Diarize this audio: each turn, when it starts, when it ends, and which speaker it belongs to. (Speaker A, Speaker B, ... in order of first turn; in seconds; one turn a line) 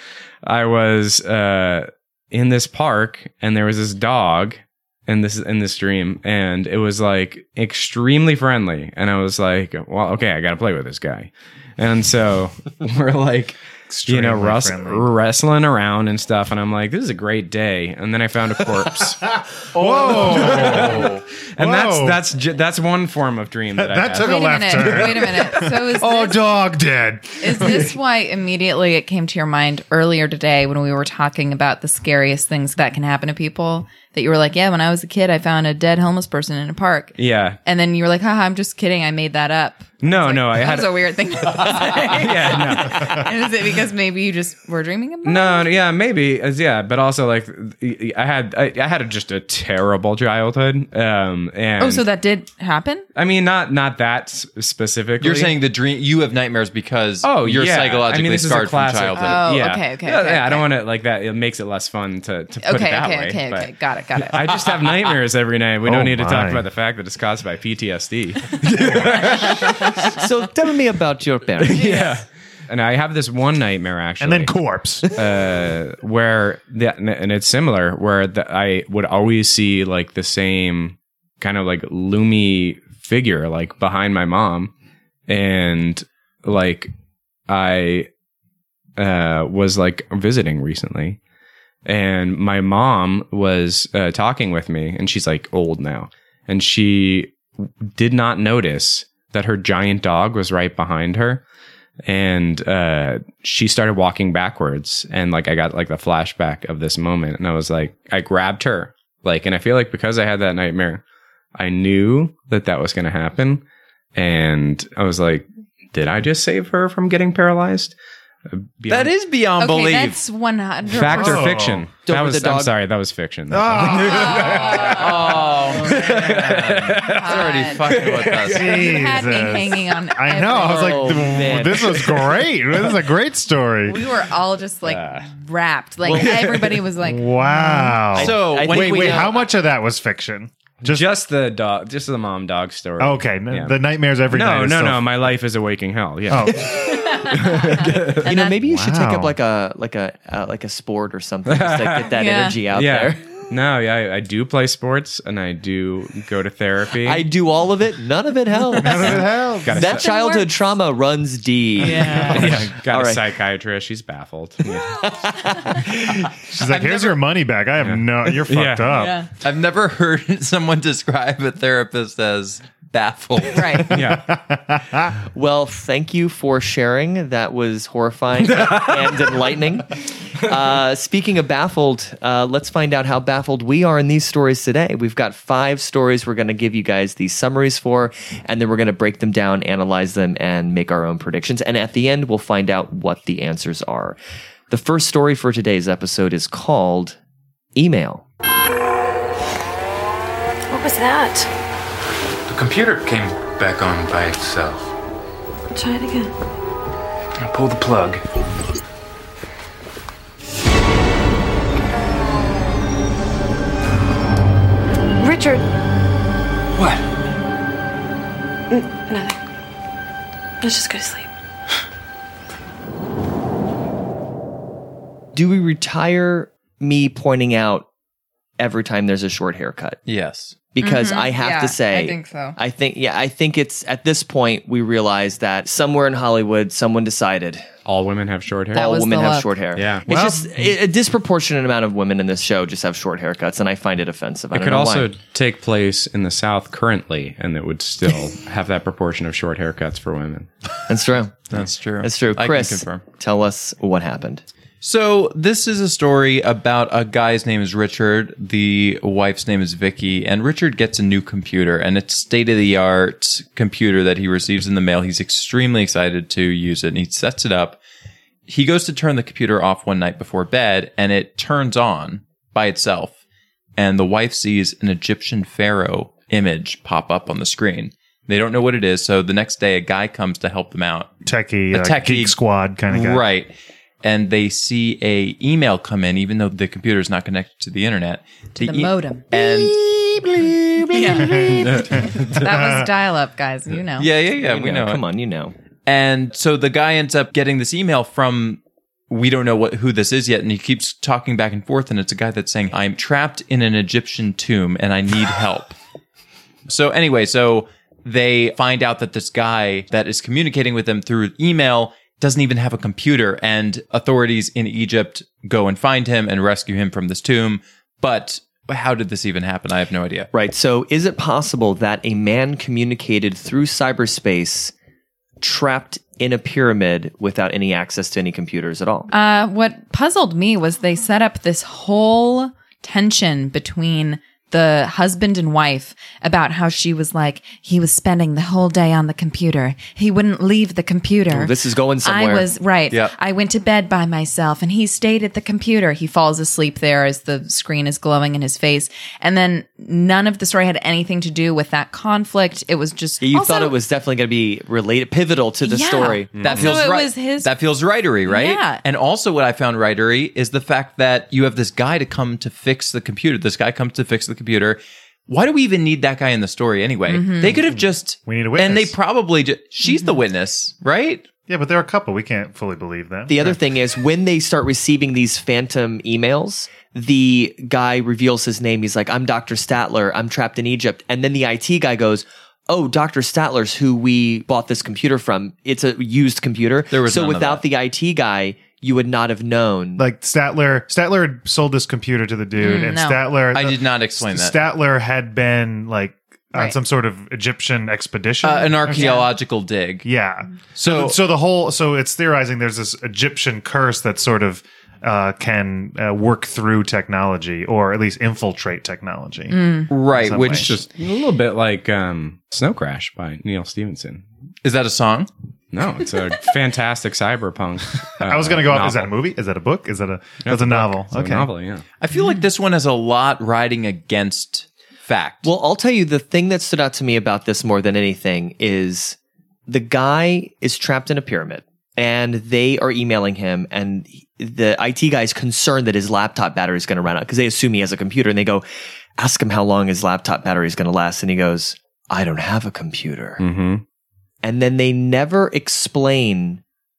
Speaker A: 0.4-19.2
Speaker B: 13.9-15.1
Speaker C: 19.7-21.2
Speaker B: 19.8-22.2
Speaker A: 20.2-25.2
Speaker B: 23.8-27.9
Speaker D: 24.2-26.5
Speaker D: 27.4-45.7
Speaker A: 37.2-37.6
Speaker A: 40.0-43.2
Speaker A: 45.2-52.1
Speaker D: 51.8-53.1
Speaker A: 53.1-55.6
Speaker C: 55.2-59.6
Speaker A: 57.2-63.7
Speaker D: 59.2-60.7
Speaker D: 62.6-64.8
Speaker A: 64.2-70.2
Speaker B: 65.8-66.7
Speaker E: 70.0-72.0
Speaker A: 71.6-74.5
Speaker B: 74.2-75.1
Speaker A: 75.1-84.7
Speaker A: 85.3-86.9
Speaker A: 87.5-88.1
Speaker A: 89.0-91.2
Speaker A: 91.9-101.4
Speaker A: 102.1-111.0
Speaker A: 111.6-113.6
Speaker A: 114.2-118.0
Speaker A: 118.5-119.1
Speaker C: 118.9-120.2
Speaker D: 119.6-121.5
Speaker A: 120.9-128.9
Speaker B: 121.0-121.9
Speaker E: 122.0-122.7
Speaker B: 123.5-125.4
Speaker D: 124.2-124.6
Speaker C: 124.7-128.8
Speaker D: 127.1-127.8
Speaker B: 128.5-134.0
Speaker D: 128.7-131.1
Speaker E: 130.5-132.2
Speaker D: 133.9-138.0
Speaker A: 134.9-135.3
Speaker E: 136.1-136.4
Speaker A: 136.1-136.9
Speaker B: 137.0-141.1
Speaker E: 138.1-139.4
Speaker C: 138.2-139.4
Speaker A: 140.8-143.8
Speaker B: 143.0-145.3
Speaker A: 144.3-148.3
Speaker B: 146.3-147.1
Speaker D: 147.3-148.6
Speaker E: 148.2-153.2
Speaker B: 148.6-149.3
Speaker A: 151.5-152.1
Speaker D: 152.1-152.6
Speaker A: 152.7-157.2
Speaker E: 157.0-159.2
Speaker B: 158.8-159.9
Speaker A: 158.9-160.1
Speaker E: 159.7-163.2
Speaker D: 159.9-160.5
Speaker D: 161.8-162.4
Speaker A: 162.1-165.1
Speaker B: 162.4-162.7
Speaker E: 165.0-166.3
Speaker B: 165.9-169.2
Speaker C: 166.7-167.2
Speaker A: 167.8-168.9
Speaker D: 168.9-169.3
Speaker C: 169.4-173.8
Speaker D: 173.5-173.9
Speaker B: 173.9-175.2
Speaker A: 173.9-174.3
Speaker E: 175.3-194.2
Speaker A: 178.5-179.2
Speaker E: 194.7-197.2
Speaker E: 197.8-198.2
Speaker F: 200.7-201.5
Speaker G: 202.5-204.9
Speaker F: 205.7-206.3
Speaker G: 207.4-208.2
Speaker F: 215.2-215.6
Speaker G: 216.8-217.0
Speaker F: 218.7-219.4
Speaker F: 220.6-221.3
Speaker E: 225.3-227.9
Speaker E: 228.6-230.0
Speaker C: 230.1-230.6
Speaker E: 230.8-237.7
Speaker D: 230.8-232.6
Speaker A: 237.9-238.8
Speaker E: 238.7-245.1
Speaker D: 238.8-239.5
Speaker A: 239.8-240.1
Speaker B: 240.1-240.7
Speaker A: 244.5-250.5
Speaker E: 250.9-254.4
Speaker C: 251.5-253.0
Speaker C: 254.8-267.8
Speaker C: 268.5-273.1
Speaker C: 273.8-281.1
Speaker B: 281.3-283.2
Speaker C: 281.7-282.4
Speaker C: 282.9-289.8
Speaker D: 288.6-289.2
Speaker E: 289.3-291.8
Speaker D: 290.9-294.1
Speaker B: 291.1-292.8
Speaker A: 291.7-292.5
Speaker C: 294.0-295.0
Speaker E: 294.3-295.5
Speaker C: 295.9-305.8
Speaker C: 306.7-320.3
Speaker E: 320.3-324.7
Speaker E: 325.4-329.1
Speaker D: 329.1-353.8
Speaker E: 341.3-342.5
Speaker E: 353.2-356.4
Speaker D: 355.6-357.5
Speaker A: 356.4-356.8
Speaker C: 356.4-371.2
Speaker D: 358.3-358.8
Speaker D: 367.1-367.6
Speaker B: 367.7-368.9
Speaker D: 369.9-370.1
Speaker B: 371.5-373.6
Speaker E: 373.3-390.0
Speaker C: 386.9-387.6
Speaker B: 390.0-399.2
Speaker D: 392.6-393.2
Speaker C: 393.5-394.6
Speaker C: 398.4-400.1
Speaker D: 398.9-399.3
Speaker B: 400.0-410.7
Speaker C: 400.8-401.2
Speaker D: 409.5-409.9
Speaker C: 409.9-410.8
Speaker A: 410.5-414.2
Speaker C: 414.6-415.3
Speaker A: 415.7-419.1
Speaker B: 418.2-421.5
Speaker A: 420.4-421.8
Speaker C: 422.0-425.5
Speaker E: 425.4-429.2
Speaker E: 429.7-438.6
Speaker E: 439.2-443.4
Speaker A: 443.4-443.8
Speaker E: 444.4-446.6